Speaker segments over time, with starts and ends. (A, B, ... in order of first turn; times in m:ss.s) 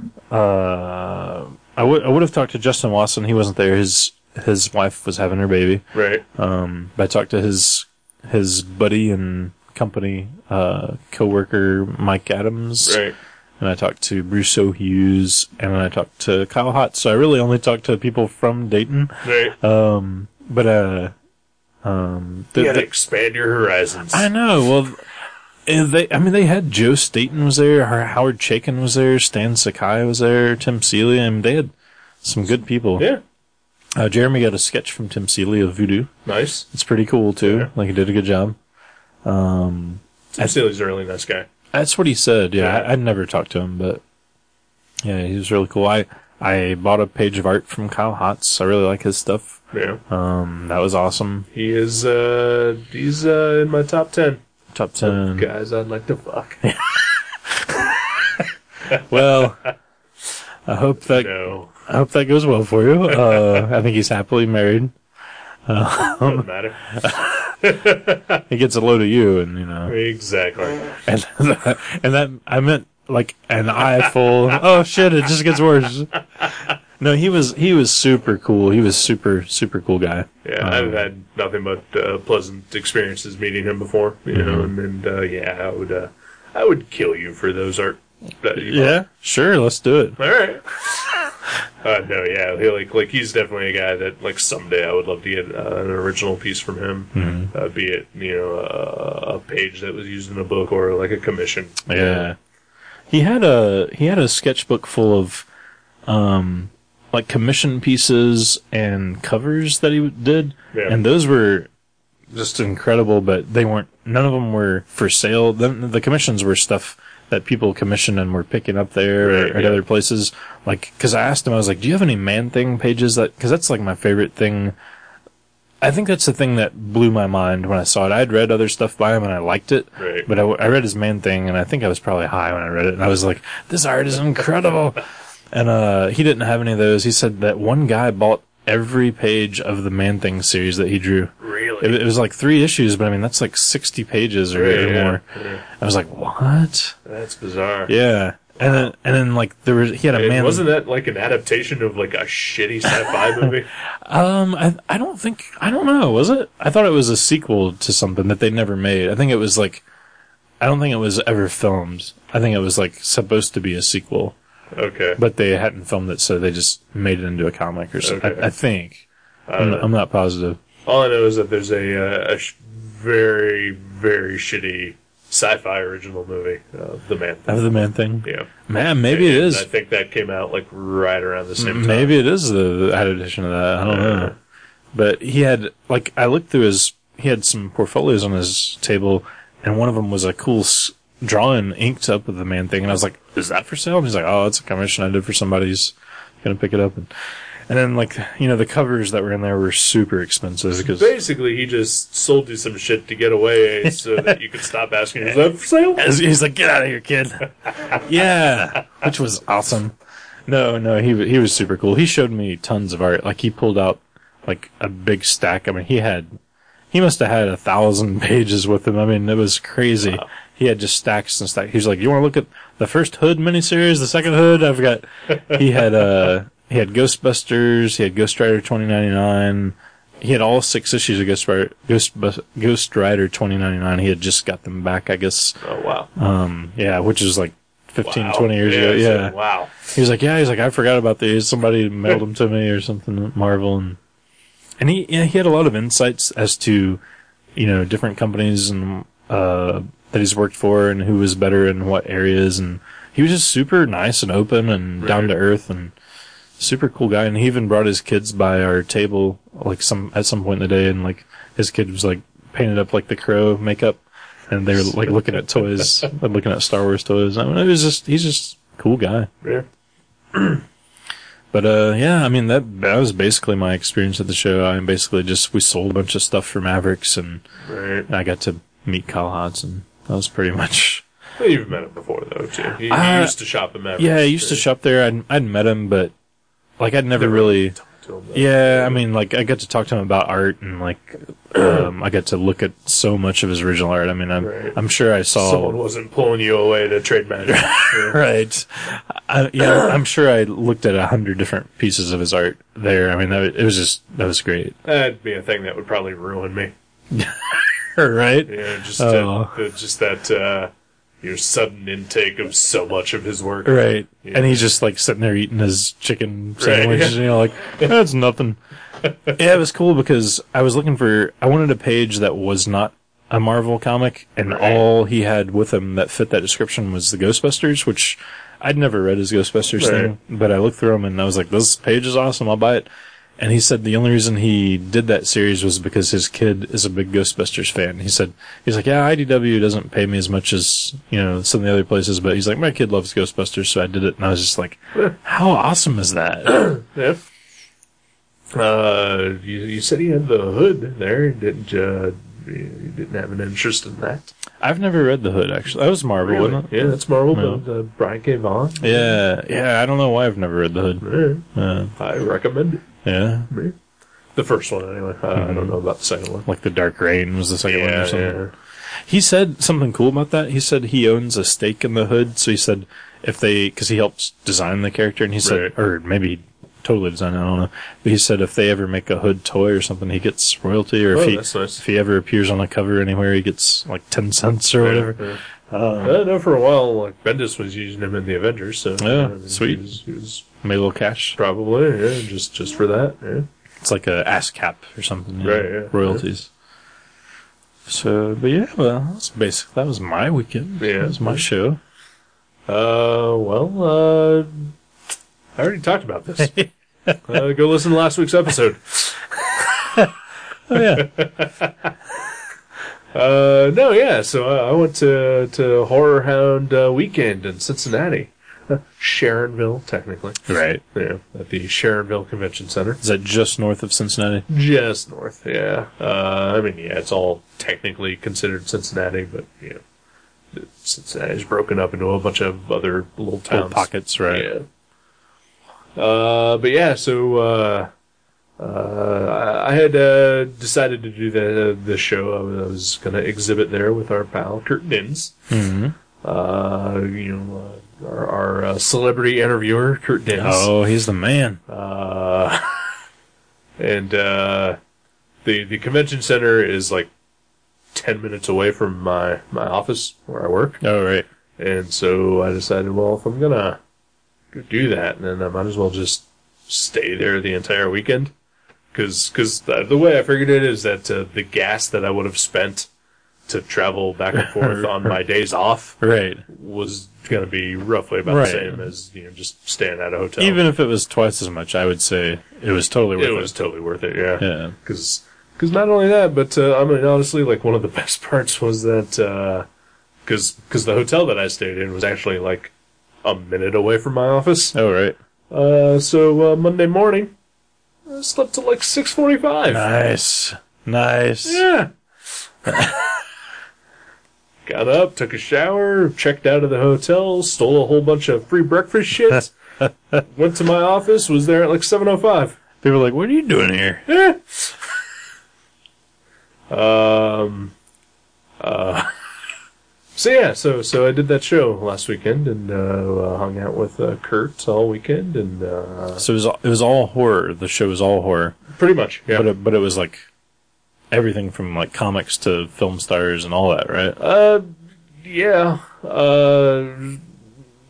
0:00.3-0:13.0 A
0:05.9-0:06.2 B
0:12.8-0:13.2 B
0:13.6-0:21.1 A
0:19.2-0:19.6 B
0:21.8-0:22.9 A
0:22.6-0:24.3 B
0:24.1-0:25.0 A
0:25.7-0:31.7 A
0:32.2-0:33.1 A
0:34.0-0:36.1 A
0:36.3-0:36.7 B
0:36.7-0:38.6 A
0:37.4-0:37.7 B
0:39.2-0:40.6 A
0:40.3-0:41.5 B
0:41.7-0:44.0 A
0:42.6-0:42.9 B
0:45.0-0:51.5 A
0:49.7-0:50.0 B
0:51.5-0:54.4 B
0:54.7-0:55.5 A
0:55.0-0:56.6 B
0:56.6-0:58.4 A
0:59.0-0:59.7 A
1:00.7-1:04.9 A
1:01.1-1:01.7 B
1:03.2-1:03.6 B
1:05.7-1:07.3 A
1:06.2-1:06.9 B
1:07.6-1:08.4 B
1:08.5-1:10.0 A
1:09.9-1:11.0 B
1:11.1-1:16.1 A
1:17.0-1:21.1 A
1:20.4-1:29.0 B
1:24.3-1:24.7 A
1:28.6-1:30.2 A
1:30.2-1:30.6 B
1:31.8-1:42.3 B
1:37.1-1:37.5 A
1:41.9-1:42.4 A
1:43.1-1:45.5 A
1:46.1-1:51.7 A
1:50.7-1:51.0 B
1:52.3-2:04.8 A
1:59.2-1:59.8 B
2:05.8-2:27.0 A
2:10.0-2:10.3 B
2:21.4-2:22.0 B
2:24.5-2:25.6 B
2:27.1-2:27.9 B
2:27.9-2:30.7 A
2:28.6-2:28.9 B
2:30.1-2:33.7 B
2:33.4-2:39.8 A
2:40.6-2:44.4 A
2:44.7-2:45.2 B
2:45.2-2:49.0 A
2:48.0-2:48.5 B
2:49.5-2:49.9 B
2:49.6-2:50.6 A
2:50.8-2:58.5 B
2:57.5-2:59.7 A
2:59.1-3:02.2 B
3:01.6-3:04.4 A
3:03.8-3:04.4 B
3:04.9-3:17.1 A
3:17.7-3:21.1 A
3:20.8-3:26.0 B
3:23.9-3:24.3 A
3:26.0-3:30.0 A
3:30.5-3:36.3 A
3:36.9-3:55.6 A
3:55.6-3:56.1 B
3:56.2-4:04.0 A
3:58.0-3:59.7 B
4:04.8-4:07.0 A
4:07.6-4:15.9 A
4:15.0-4:15.3 B
4:16.6-4:29.3 A
4:30.3-4:30.6 B
4:31.5-4:37.4 A
4:37.6-4:38.1 B
4:38.1-4:41.0 A
4:41.4-4:44.6 B
4:42.9-4:43.3 A
4:44.0-4:46.1 A
4:46.8-4:47.8 A
4:47.2-4:49.0 B
4:48.3-4:55.8 A
4:51.6-4:51.8 B
4:54.4-4:54.8 B
4:55.3-4:58.2 B
4:57.5-5:04.8 A
5:04.8-5:06.7 B
5:07.1-5:09.6 A
5:08.5-5:10.7 B
5:11.2-5:14.7 B
5:13.7-5:18.6 A
5:16.6-5:17.2 B
5:19.3-5:32.9 A
5:24.5-5:24.8 B
5:29.8-5:30.1 B
5:33.4-5:46.7 A
5:46.5-5:47.2 B
5:48.5-5:54.3 B
5:54.6-5:57.6 A
5:56.2-5:59.2 B
5:58.8-6:01.9 A
6:01.0-6:01.5 B
6:02.0-6:02.8 B
6:03.0-6:03.5 A
6:03.5-6:03.8 B
6:04.4-6:06.4 B
6:05.4-6:05.8 A
6:06.4-6:08.4 A
6:07.7-6:08.5 B
6:09.1-6:26.2 A
6:15.4-6:15.7 B
6:21.1-6:21.8 B
6:24.8-6:25.4 B
6:26.0-6:30.4 B
6:29.0-6:29.8 A
6:30.6-6:31.4 A
6:31.4-6:33.5 B
6:33.8-6:36.5 A
6:35.4-6:36.2 B
6:37.9-6:41.8 A
6:40.8-6:41.5 B
6:42.7-6:44.7 B
6:45.6-6:46.6 B
6:46.4-6:47.4 A
6:47.2-6:50.0 B
6:50.7-6:51.2 A
6:50.7-6:51.9 B
6:53.1-7:03.0 B
7:00.5-7:00.8 A
7:03.0-7:04.4 A
7:04.5-7:09.8 B
7:10.5-7:14.7 B
7:13.5-7:14.5 A
7:16.0-7:17.9 B
7:18.6-7:25.4 B
7:25.5-7:26.0 A
7:26.2-7:30.7 B
7:30.4-7:31.6 A
7:31.7-7:32.9 B
7:33.8-7:34.8 B
7:35.4-7:37.1 B
7:37.9-7:40.8 B
7:40.8-7:41.3 A
7:41.6-7:43.8 B
7:44.5-7:48.3 B
7:48.9-7:52.9 B
7:53.5-8:00.6 B
7:54.4-7:55.1 A
7:56.0-7:56.4 A
7:58.3-7:58.8 A
8:00.4-8:03.5 A
8:03.2-8:09.7 B
8:04.4-8:04.8 A
8:10.3-8:12.7 B
8:13.2-8:14.8 B
8:14.7-8:15.2 A
8:15.5-8:17.3 B
8:18.1-8:19.9 B
8:19.7-8:21.6 A
8:21.4-8:21.9 B
8:22.7-8:23.0 A
8:24.7-8:29.5 B
8:30.1-8:32.6 B
8:32.8-8:34.0 A
8:34.1-8:34.4 B
8:36.7-8:37.7 B
8:38.6-8:39.1 B
8:40.2-8:46.2 B
8:46.2-8:48.6 A
8:48.7-8:49.5 B
8:49.3-8:50.2 A
8:51.1-8:54.2 A
8:54.2-8:54.7 B
8:55.2-8:57.2 B